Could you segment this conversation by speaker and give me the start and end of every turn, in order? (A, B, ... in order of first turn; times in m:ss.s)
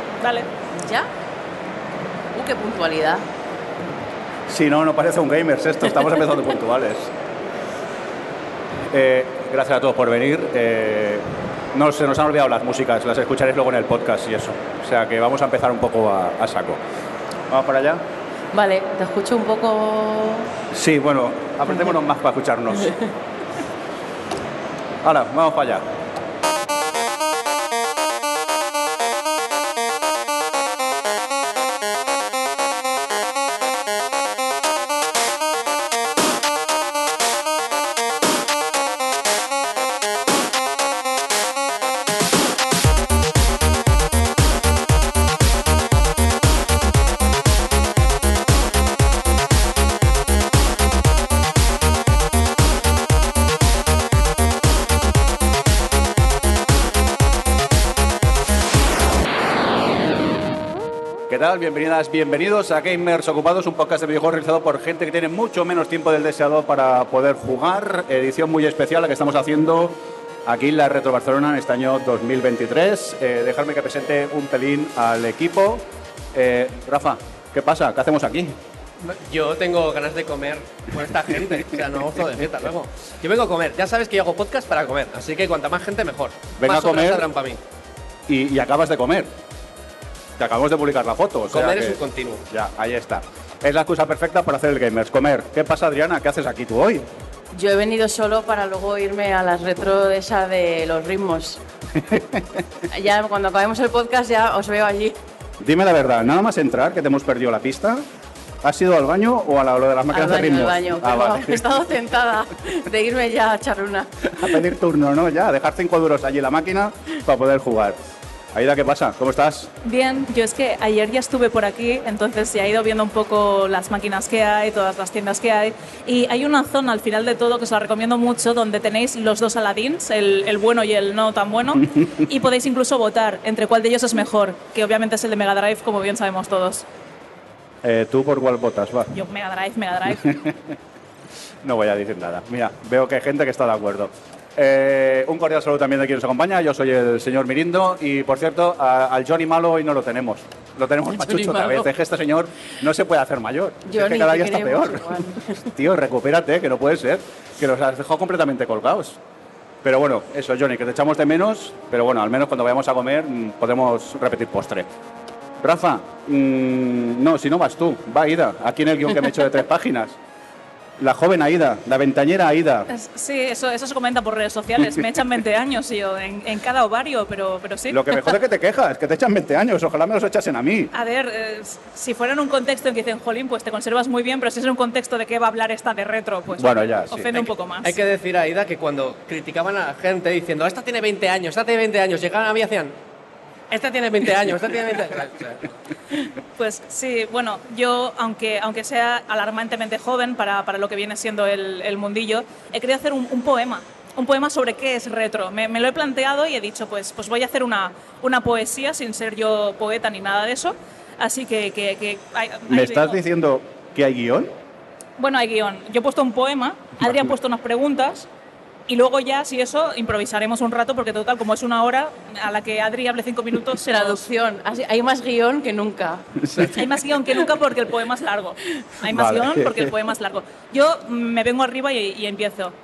0:00.2-0:00.5 A
0:00.7-0:01.1 B
0:02.3-0:03.2 B
0:04.5-0:07.1 C
0:08.9-0:16.8 C
0:17.5-0:18.0 C
0:18.5-0:20.5 B
0:20.7-0:22.9 C
0:25.0-0:25.8 C
1:01.3-1:18.5 C
1:19.0-1:27.6 D
1:26.6-1:27.3 C
1:28.3-1:29.3 C
1:30.4-1:37.1 C
1:31.5-1:32.4 D
1:37.5-1:41.6 B
1:42.0-1:42.6 C
1:42.9-1:45.2 B
1:45.6-1:48.0 C
1:48.6-1:51.6 C
1:50.1-1:54.5 B
1:54.3-1:58.0 C
1:58.5-1:59.7 C
1:59.8-2:16.8 A
2:17.8-2:19.1 C
2:19.1-2:20.3 A
2:20.2-2:20.7 C
2:21.6-2:39.2 C
2:31.2-2:31.9 B
2:33.9-2:35.6 B
2:39.8-2:44.9 C
2:45.6-2:50.1 C
2:51.0-2:52.9 C
2:52.9-2:58.2 A
2:57.9-3:00.9 C
3:00.9-3:08.0 A
3:06.6-3:07.5 C
3:07.8-3:12.9 D
3:13.7-3:15.7 D
3:16.6-3:33.2 A
3:32.7-3:34.5 C
3:35.2-3:38.2 A
3:38.9-3:44.2 A
3:43.8-3:46.3 B
3:46.4-3:46.7 C
3:46.7-3:52.7 A
3:49.1-3:49.9 C